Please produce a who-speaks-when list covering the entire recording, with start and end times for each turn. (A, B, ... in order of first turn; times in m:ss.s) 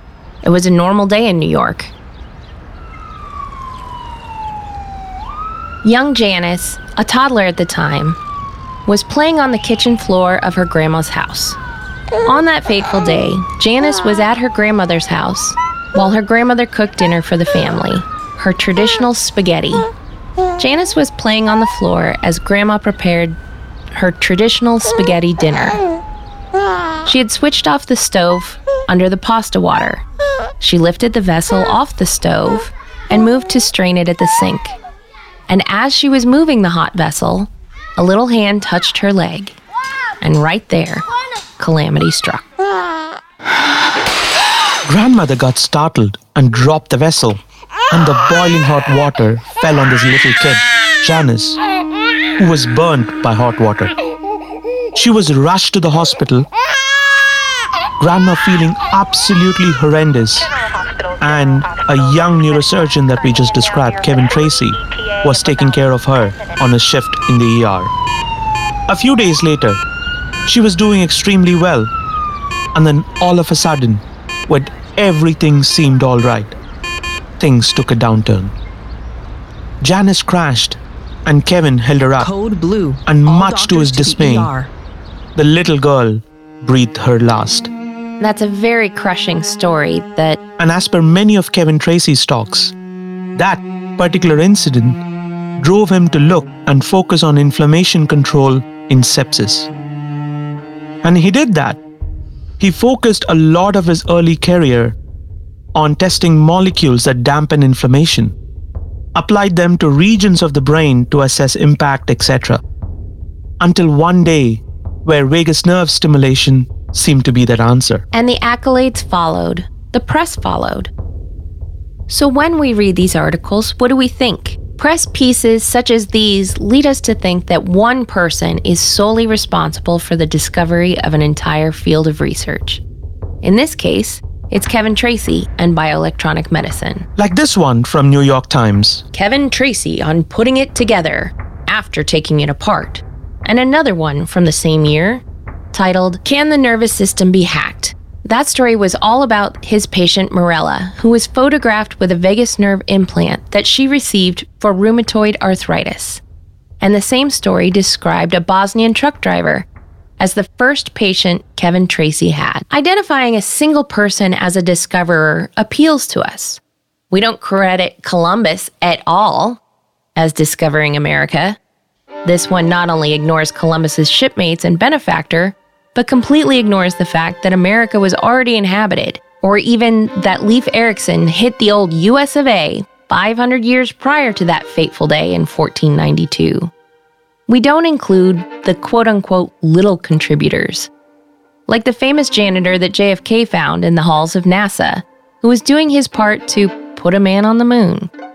0:00.4-0:01.9 A
0:05.8-0:08.2 A
0:08.8-0:11.6 A
0:12.2-0:19.9 A
0:20.6-0:23.4 A
0:23.9-0:25.8 A
0:27.0-0:30.0 A
0:30.6-0:34.8 A
0:35.5-0:39.6 A
0:40.2-0:41.0 A
0:41.6-0:42.4 A
0:44.8-0:47.4 B
0:47.9-0:51.6 B
0:52.4-0:53.9 B
0:54.9-0:56.5 B
0:58.0-1:00.5 B
1:01.2-1:07.9 B
1:08.9-1:09.8 B
1:10.4-1:11.9 B
1:12.7-1:16.5 B
1:17.4-1:18.5 B
1:19.8-1:22.3 B
1:22.2-1:24.7 C
1:23.0-1:24.5 B
1:25.3-1:27.7 B
1:28.2-1:30.4 A
1:30.6-1:32.7 B
1:33.3-1:35.0 B
1:35.6-1:39.7 B
1:41.0-1:41.8 B
1:42.6-1:45.0 B
1:45.7-1:48.4 B
1:49.1-1:52.6 B
1:53.6-1:58.0 B
1:58.1-2:00.9 A
2:02.1-2:12.8 A
2:13.4-2:17.1 A
2:17.2-2:19.0 B
2:19.1-2:36.2 A
2:36.8-2:39.7 A
2:40.2-2:46.6 A
2:47.1-2:49.6 A
2:50.2-2:51.6 A
2:52.2-3:06.7 A
3:07.5-3:10.9 A
3:11.7-3:18.1 A